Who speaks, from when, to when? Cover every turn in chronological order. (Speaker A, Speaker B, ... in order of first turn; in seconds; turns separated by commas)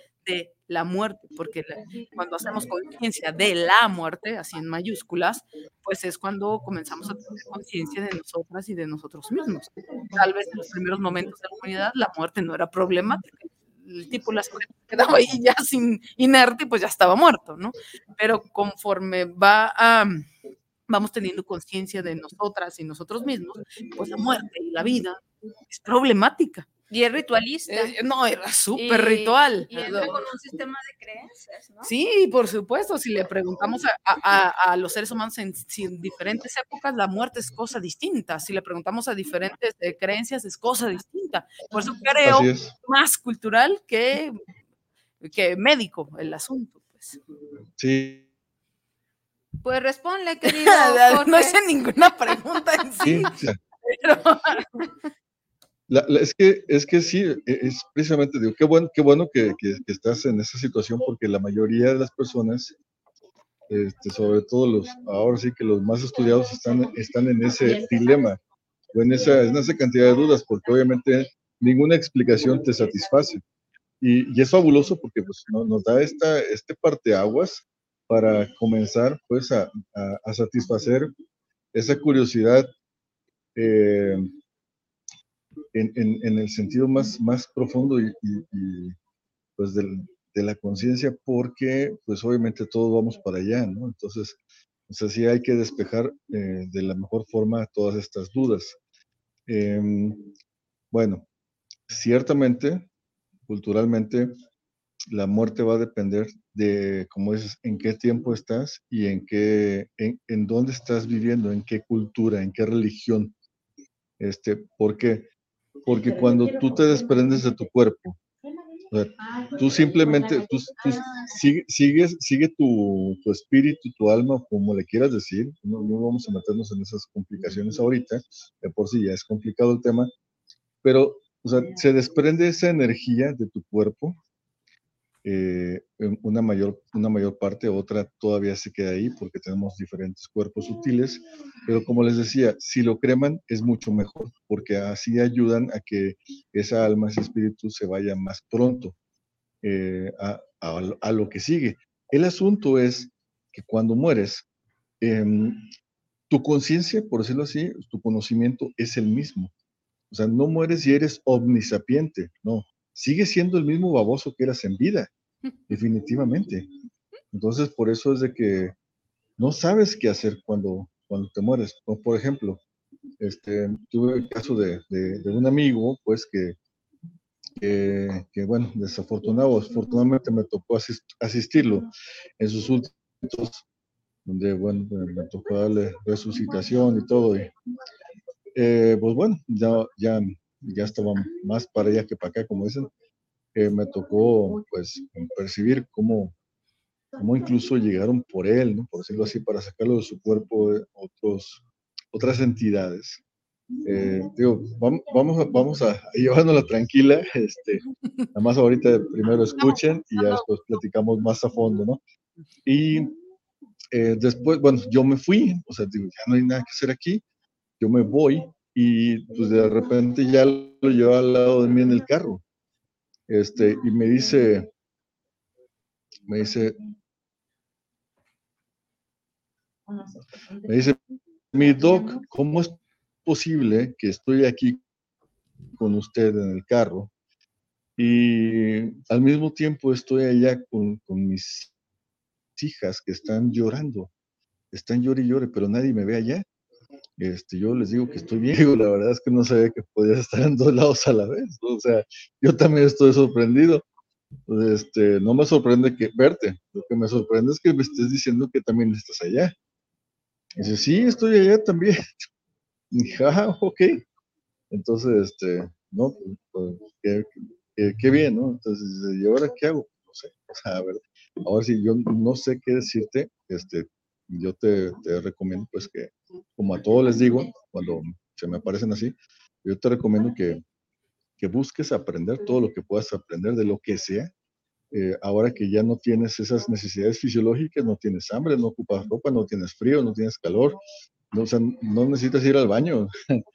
Speaker A: 0.2-20.2, Speaker A: 20.9-26.6, Speaker B: 26.9-27.9, Speaker A: 27.7-30.2, Speaker B: 28.8-31.9, Speaker A: 31.8-44.4, Speaker C: 42.2-42.7, Speaker A: 45.2-47.2, Speaker C: 47.8-48.2, Speaker B: 49.6-51.5, Speaker A: 50.4-53.3, Speaker C: 53.0-53.6, Speaker A: 53.9-54.8, Speaker C: 55.9-62.8, Speaker C: 63.7-68.4, Speaker C: 68.9-73.4, Speaker C: 74.0-81.1, Speaker C: 81.7-82.7, Speaker C: 83.5-84.3, Speaker C: 85.7-89.0, Speaker C: 89.6-94.4, Speaker C: 94.9-98.8, Speaker C: 99.5-100.3, Speaker C: 100.9-101.2, Speaker C: 101.9-102.9, Speaker C: 103.5-104.3, Speaker C: 105.1-113.3, Speaker C: 114.2-115.3, Speaker C: 115.8-118.2, Speaker C: 118.9-130.1, Speaker C: 130.8-134.2, Speaker C: 135.2-148.9, Speaker C: 149.6-154.4, Speaker C: 155.0-155.7, Speaker C: 156.3-159.5, Speaker C: 160.1-165.1, Speaker C: 165.7-166.7, Speaker C: 167.3-168.7, Speaker C: 169.4-172.6, Speaker C: 173.2-176.6, Speaker C: 177.6-183.6, Speaker C: 184.2-187.5, Speaker C: 188.5-192.9, Speaker C: 193.5-196.3, Speaker C: 197.2-203.2, Speaker C: 203.8-207.8, Speaker C: 208.3-212.0, Speaker C: 212.7-213.1, Speaker C: 213.9-217.2, Speaker C: 217.8-222.4, Speaker C: 223.3-224.7, Speaker C: 226.3-226.8, Speaker C: 230.6-231.0, Speaker C: 231.5-234.8, Speaker C: 235.8-237.1, Speaker C: 238.0-241.7, Speaker C: 242.6-244.1, Speaker C: 244.7-246.4, Speaker C: 247.2-253.8, Speaker C: 254.5-259.5, Speaker C: 260.6-262.1, Speaker C: 262.9-264.0, Speaker C: 264.7-280.6, Speaker C: 281.4-284.3, Speaker C: 284.9-290.8, Speaker C: 291.3-293.1